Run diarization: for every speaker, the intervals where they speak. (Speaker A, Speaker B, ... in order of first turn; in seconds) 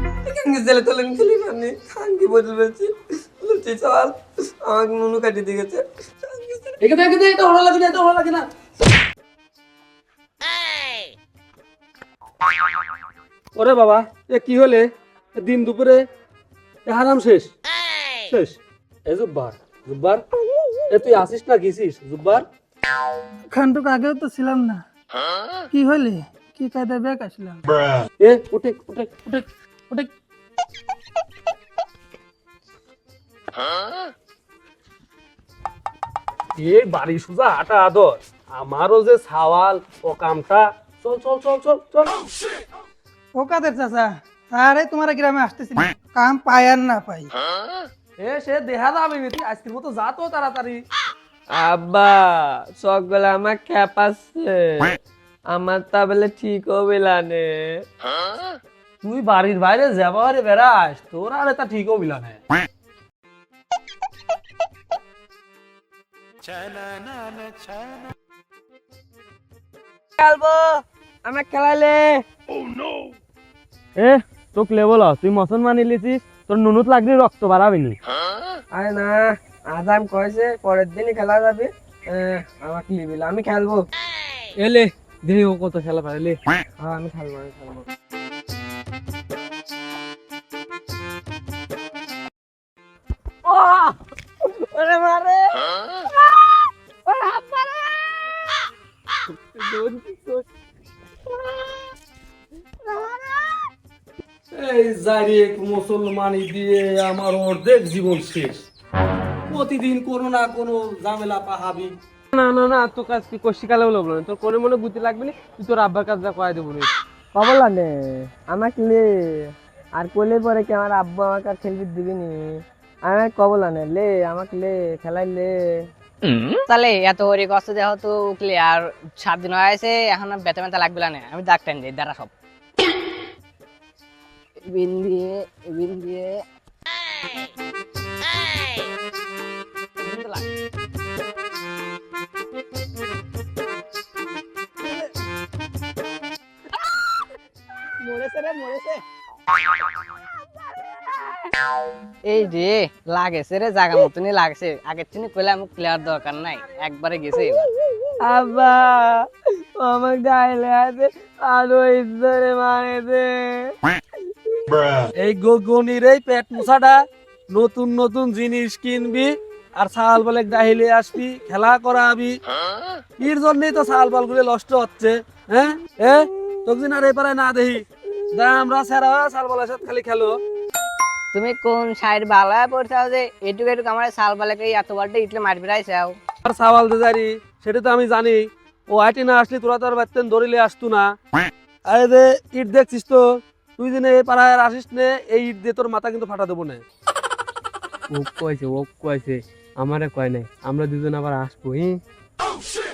Speaker A: 0.3-6.8, 51.5-57.9, 70.2-72.2, 78.7-83.9, 86.8-87.9, 93.5-93.9, 94.5-98.5, 99.6-100.3, 101.4-101.8, 102.9-103.6, 117.3-125.9, 150.8-151.2, 158.2-163.7
Speaker B: 6.8-8.5, 13.6-16.1, 16.9-17.5, 18.3-20.2, 20.9-22.4, 28.2-30.1, 36.6-42.1, 48.2-50.8, 59.0-62.4, 74.0-78.0, 104.5-108.6, 109.5-111.9, 165.2-167.0, 167.5-172.4, 173.2-180.4, 186.4-191.1, 191.9-193.2, 193.8-196.8
Speaker C: 23.5-24.8, 25.7-27.6, 43.4-47.3
Speaker D: 84.6-86.4, 112.3-116.9, 198.1-202.0
Speaker E: 126.7-132.3, 134.7-136.4, 140.0-140.5, 152.3-157.7, 181.3-186.2